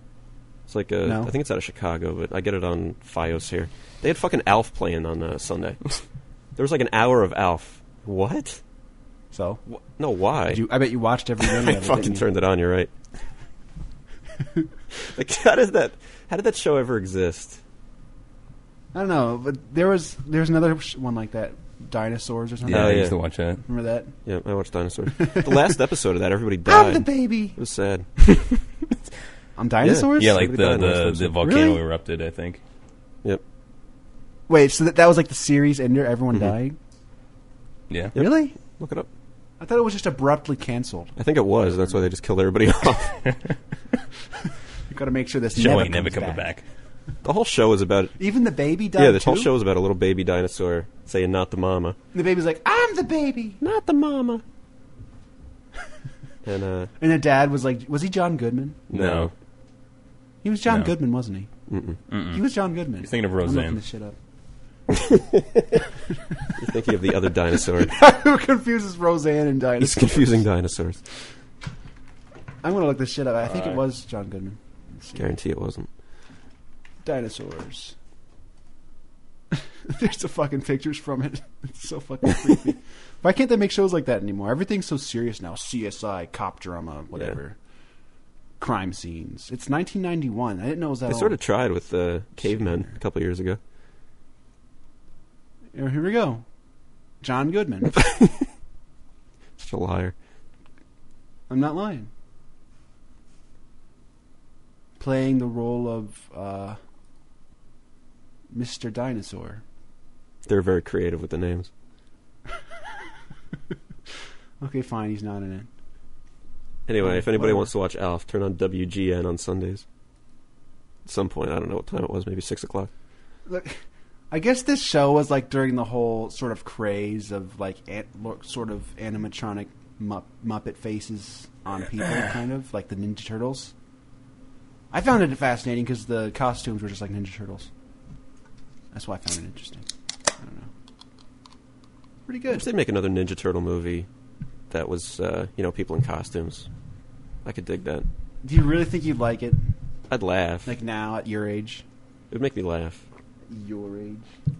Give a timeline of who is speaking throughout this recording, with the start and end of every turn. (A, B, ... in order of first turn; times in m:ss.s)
0:00.7-0:05.9 A
0:01.0-0:01.3 B
0:06.6-0:08.6 A
0:09.3-0:09.6 B
0:09.7-0:10.6 A
0:10.5-0:12.2 B
0:11.4-0:12.9 A
0:15.1-0:17.6 A
0:18.9-0:23.1 B
0:22.6-0:23.6 C
0:22.7-0:23.1 A
0:23.6-0:24.1 B
0:24.2-0:28.1 A
0:25.2-0:25.7 B
0:26.6-0:27.6 B
0:29.6-0:30.4 B
0:29.8-0:31.4 A
0:30.1-0:32.6 C
0:31.4-0:31.8 B
0:34.5-0:36.8 B
0:38.1-0:38.5 B
0:38.1-0:39.1 A
0:39.6-0:42.0 B
0:41.2-0:43.2 A
0:43.2-0:43.5 C
0:44.9-0:46.5 B
0:45.5-0:46.6 C
0:47.2-0:48.1 A
0:48.2-0:49.5 B
0:49.0-0:52.0 A
0:52.1-0:53.6 B
0:53.6-0:54.4 A
0:56.4-0:56.9 A
0:57.0-0:58.8 B
0:58.9-0:59.3 A
0:58.9-0:59.3 C
1:00.4-1:01.5 B
1:00.7-1:00.9 C
1:01.7-1:02.0 A
1:02.1-1:02.4 C
1:02.3-1:04.2 B
1:03.0-1:03.8 C
1:04.9-1:05.8 A
1:06.6-1:07.9 A
1:07.8-1:10.4 B
1:09.8-1:11.0 A
1:12.6-1:15.1 B
1:15.1-1:15.9 A
1:17.0-1:17.9 B
1:19.5-1:27.6 B
1:28.6-1:31.4 B
1:31.1-1:33.6 A
1:32.6-1:32.8 B
1:35.7-1:36.4 B
1:37.2-1:38.0 B
1:39.6-1:40.1 A
1:41.5-1:42.1 B
1:45.0-1:46.8 B
1:48.5-1:49.6 B
1:50.4-1:51.7 A
1:54.6-1:55.7 B
1:56.9-1:59.8 A
1:57.0-1:57.7 B
2:01.0-2:02.9 A
2:03.4-2:13.7 B
2:14.9-2:17.7 B
2:18.9-2:19.8 B
2:20.4-2:20.7 B
2:22.3-2:22.6 B
2:22.5-2:24.1 A
2:24.7-2:26.7 A
2:27.4-2:28.1 A
2:28.4-2:29.7 B
2:30.1-2:30.8 A
2:30.6-2:31.8 B
2:32.3-2:33.0 A
2:33.5-2:34.3 B